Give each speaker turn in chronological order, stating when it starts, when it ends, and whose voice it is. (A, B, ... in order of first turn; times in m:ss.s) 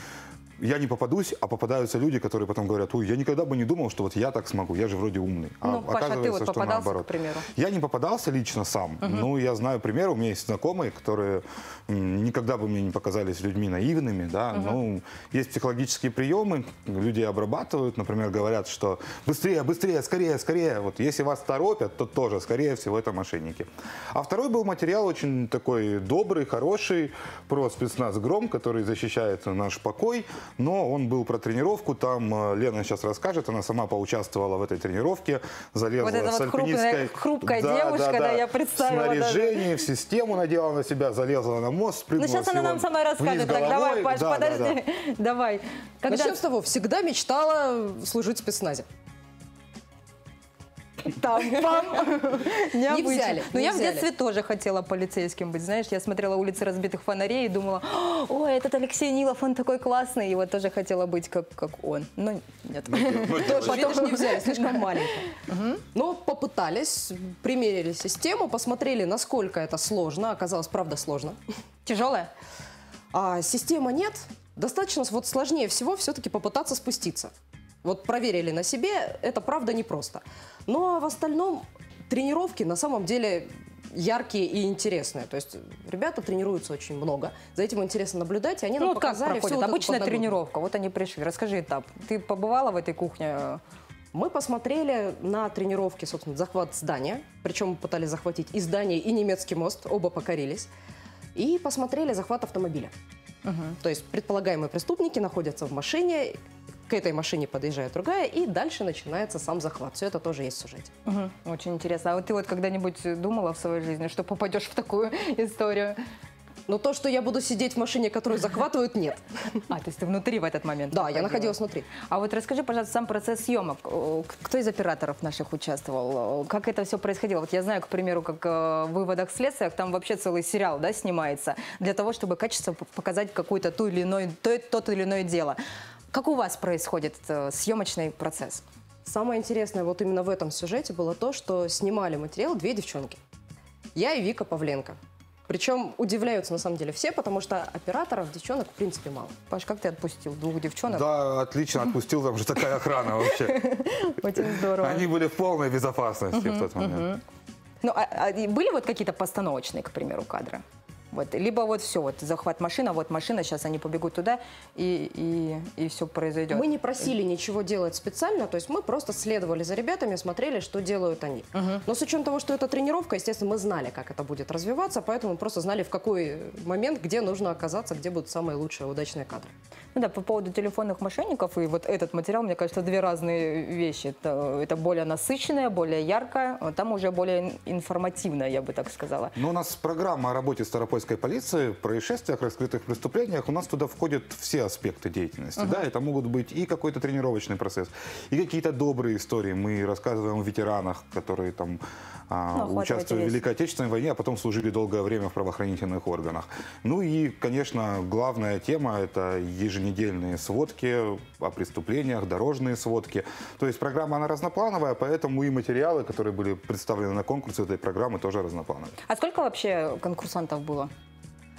0:00.6-0:44.8 A
0:05.6-0:07.5 B
0:09.0-0:09.3 B
0:14.5-0:14.8 B
0:36.0-0:39.7 B
0:42.2-0:46.4 B
0:46.1-0:48.9 C
0:51.1-1:05.8 B
0:51.4-0:54.1 C
1:02.9-1:03.8 A
1:03.3-1:05.3 C
1:05.9-1:11.4 C
1:11.9-1:12.3 B
1:13.1-1:17.3 C
1:17.8-1:30.3 C
1:28.8-1:33.6 B
1:34.1-1:40.7 C
1:41.4-1:42.9 C
1:43.4-1:43.8 B
1:43.8-1:50.9 C
1:51.1-1:56.0 B
1:56.7-1:59.2 C
1:59.7-2:15.6 B
2:00.9-2:01.9 C
2:16.1-2:18.6 B
2:19.0-2:23.2 C
2:24.0-2:25.0 C
2:25.5-2:29.4 C
2:29.5-2:31.1 B
2:30.9-2:33.6 A
2:33.4-2:35.1 B
2:34.8-2:37.1 A
2:36.3-2:37.2 B
2:37.8-2:47.0 B
2:46.5-2:59.5 C
2:51.6-2:51.8 B
3:00.0-3:09.3 B
3:09.4-3:38.9 A
3:15.6-3:15.8 B
3:22.5-3:23.4 B
3:39.1-3:40.9 B